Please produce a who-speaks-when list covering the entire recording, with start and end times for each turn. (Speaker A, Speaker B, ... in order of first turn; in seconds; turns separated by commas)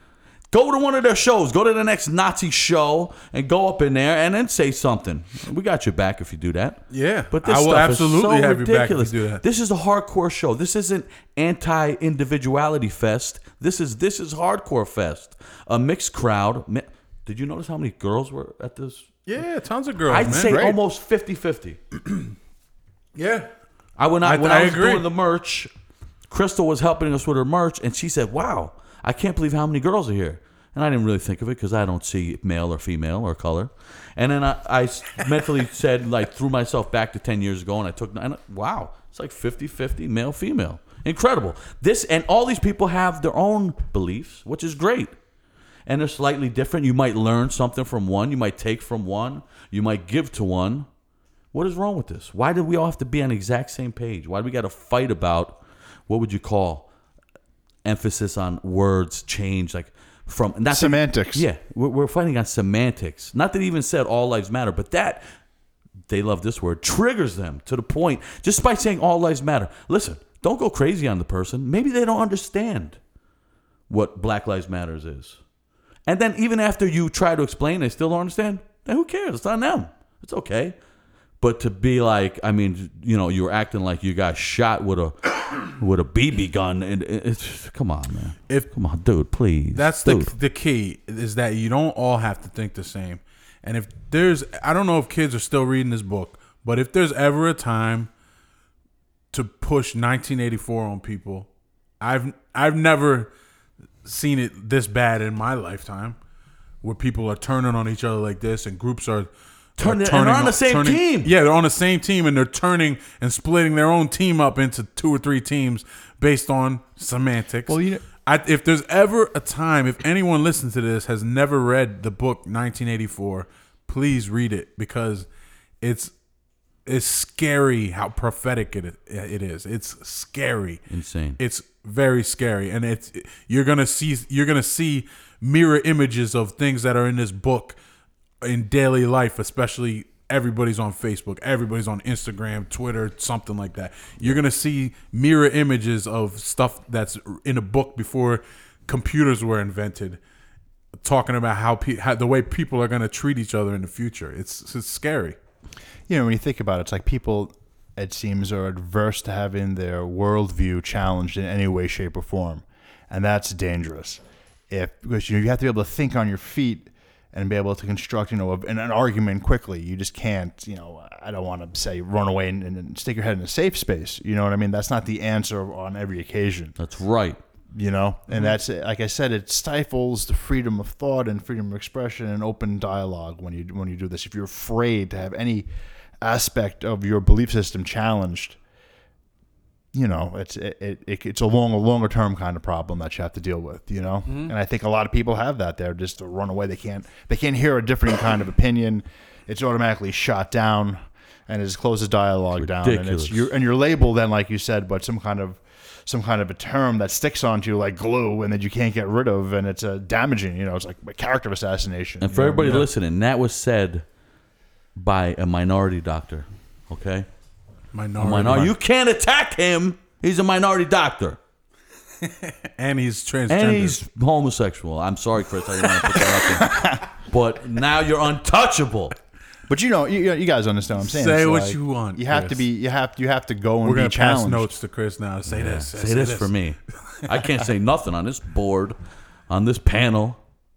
Speaker A: 0.5-19.2, Speaker B: 6.9-9.4, Speaker B: 19.3-20.6, Speaker A: 20.1-21.8, Speaker C: 20.2-20.8, Speaker B: 23.1-23.5, Speaker A: 24.0-25.7, Speaker B: 24.2-25.1, Speaker A: 26.3-45.1, Speaker A: 45.9-50.9, Speaker A: 51.5-56.9, Speaker A: 57.8-65.2, Speaker C: 60.7-61.5, Speaker A: 66.1-73.0, Speaker A: 73.9-75.4, Speaker A: 76.1-80.8, Speaker A: 81.4-90.3, Speaker B: 89.7-98.1, Speaker B: 99.3-101.5, Speaker B: 102.0-103.3, Speaker B: 104.0-106.2, Speaker B: 106.8-125.3, Speaker A: 109.8-111.3, Speaker C: 117.7-118.0, Speaker B: 125.8-126.1, Speaker B: 126.9-130.8, Speaker A: 130.9-131.4, Speaker B: 131.4-137.8, Speaker B: 138.4-150.2, Speaker B: 151.0-155.4, Speaker C: 156.1-176.8, Speaker A: 176.8-177.4, Speaker C: 177.7-185.7, Speaker C: 186.2-188.6, Speaker C: 189.9-212.6, Speaker A: 202.5-203.5, Speaker A: 212.2-214.1, Speaker B: 212.3-212.9, Speaker A: 215.0-217.3, Speaker B: 217.9-218.7, Speaker A: 218.2-221.4, Speaker B: 222.2-224.0, Speaker A: 223.5-229.1, Speaker C: 226.6-227.0, Speaker C: 229.7-234.7, Speaker B: 231.0-232.6, Speaker B: 233.8-236.5, Speaker A: 235.5-239.0, Speaker A: 239.5-240.4